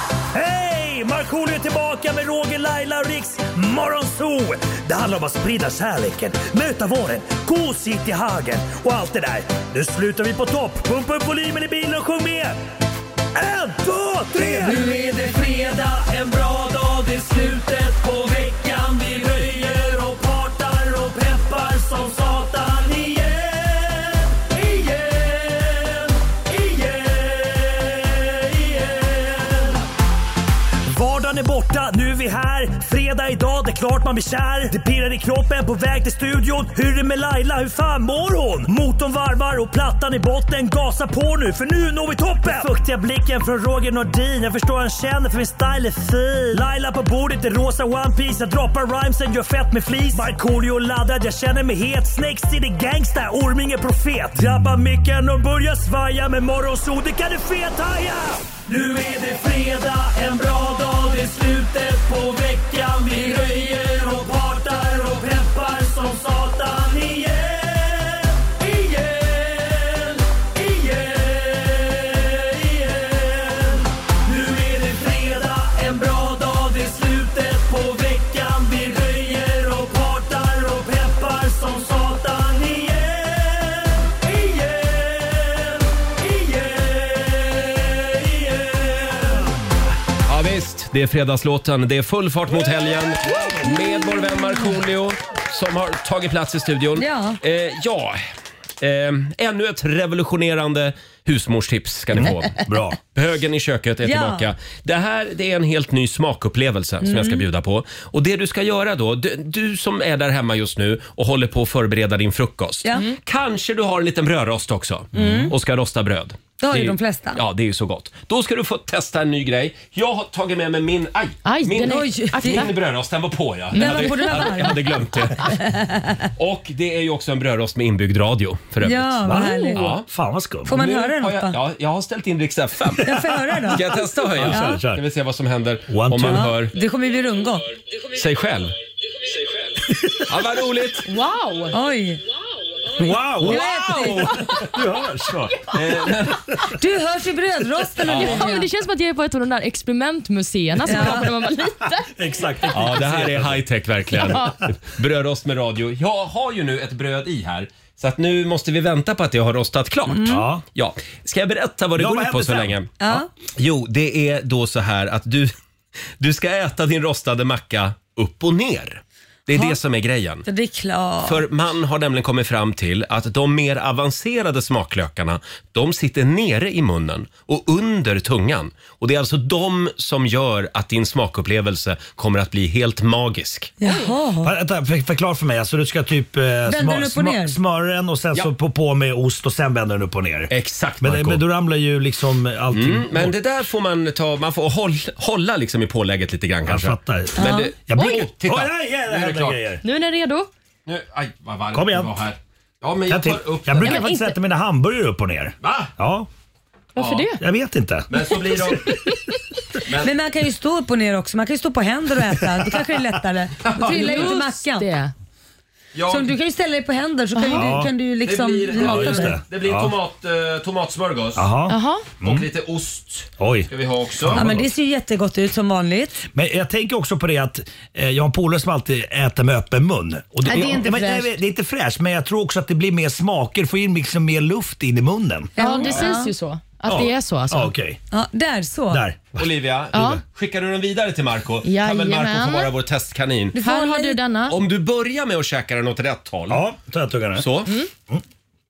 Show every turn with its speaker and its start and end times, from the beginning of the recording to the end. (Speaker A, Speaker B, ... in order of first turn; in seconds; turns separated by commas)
Speaker A: 0.3-12.6, Speaker A: 13.3-29.8, Speaker B: 14.6-15.3, Speaker A: 30.9-89.6, Speaker C: 90.2-98.2, Speaker B: 97.0-97.4, Speaker C: 98.8-125.6, Speaker A: 102.1-103.0, Speaker B: 104.0-104.5, Speaker B: 107.0-107.4, Speaker A: 115.1-115.5, Speaker B: 115.2-115.5, Speaker B: 116.6-117.4, Speaker D: 121.4-122.7, Speaker B: 121.8-122.7, Speaker B: 123.7-126.1, Speaker D: 123.7-124.1, Speaker C: 126.3-129.2, Speaker B: 128.8-130.0, Speaker A: 129.2-130.7, Speaker D: 129.4-129.7, Speaker C: 129.7-130.1, Speaker B: 130.7-131.6, Speaker C: 130.7-133.1, Speaker A: 133.0-135.0, Speaker B: 133.0-134.8, Speaker C: 133.7-136.7, Speaker A: 135.9-136.5, Speaker B: 136.2-137.6, Speaker C: 138.1-138.7, Speaker C: 140.2-141.1, Speaker D: 141.1-141.8, Speaker B: 141.7-142.2, Speaker A: 142.9-143.6, Speaker C: 143.4-144.7, Speaker B: 143.4-144.5, Speaker A: 144.6-146.7, Speaker C: 145.6-146.7, Speaker B: 146.8-148.7, Speaker C: 148.0-148.5, Speaker D: 148.2-152.1, Speaker B: 150.9-151.2, Speaker A: 152.1-153.6, Speaker C: 152.7-165.5, Speaker D: 154.2-154.5, Speaker B: 160.1-160.4, Speaker A: 160.2-160.6, Speaker A: 161.9-162.8, Speaker B: 163.0-163.3, Speaker C: 166.2-170.5, Speaker B: 169.5-169.8, Speaker B: 170.4-171.4, Speaker C: 171.2-183.8, Speaker B: 183.8-184.5, Speaker A: 184.4-193.3, Speaker B: 186.7-187.6, Speaker C: 190.5-191.4, Speaker C: 192.7-199.6, Speaker A: 196.7-199.8, Speaker B: 197.4-197.7, Speaker D: 199.8-200.5, Speaker C: 200.8-204.1, Speaker A: 201.7-202.1, Speaker A: 203.1-206.3, Speaker D: 203.8-204.3, Speaker C: 205.6-205.9, Speaker D: 206.9-207.4, Speaker C: 207.0-207.3, Speaker A: 207.4-208.1, Speaker C: 208.1-209.2, Speaker D: 208.8-209.3, Speaker C: 209.8-210.1, Speaker B: 210.0-214.9, Speaker C: 213.6-214.2, Speaker D: 213.8-215.1, Speaker C: 215.9-216.3, Speaker B: 216.1-219.4, Speaker D: 217.3-217.7, Speaker A: 217.5-217.9, Speaker C: 218.2-221.5, Speaker A: 218.7-219.9, Speaker A: 221.3-222.4, Speaker D: 221.7-222.0, Speaker C: 222.2-224.4, Speaker A: 223.4-223.7, Speaker A: 224.2-224.7, Speaker B: 224.3-226.2, Speaker A: 226.3-235.5, Speaker B: 230.4-231.3, Speaker B: 235.6-236.3, Speaker D: 235.6-237.7, Speaker A: 236.8-238.0, Speaker B: 238.1-239.0, Speaker A: 238.9-239.5, Speaker C: 239.4-243.6, Speaker D: 239.9-240.2, Speaker D: 241.6-242.7, Speaker B: 243.5-244.2, Speaker D: 243.6-244.6, Speaker C: 244.5-246.6, Speaker A: 246.5-247.5, Speaker C: 247.3-247.7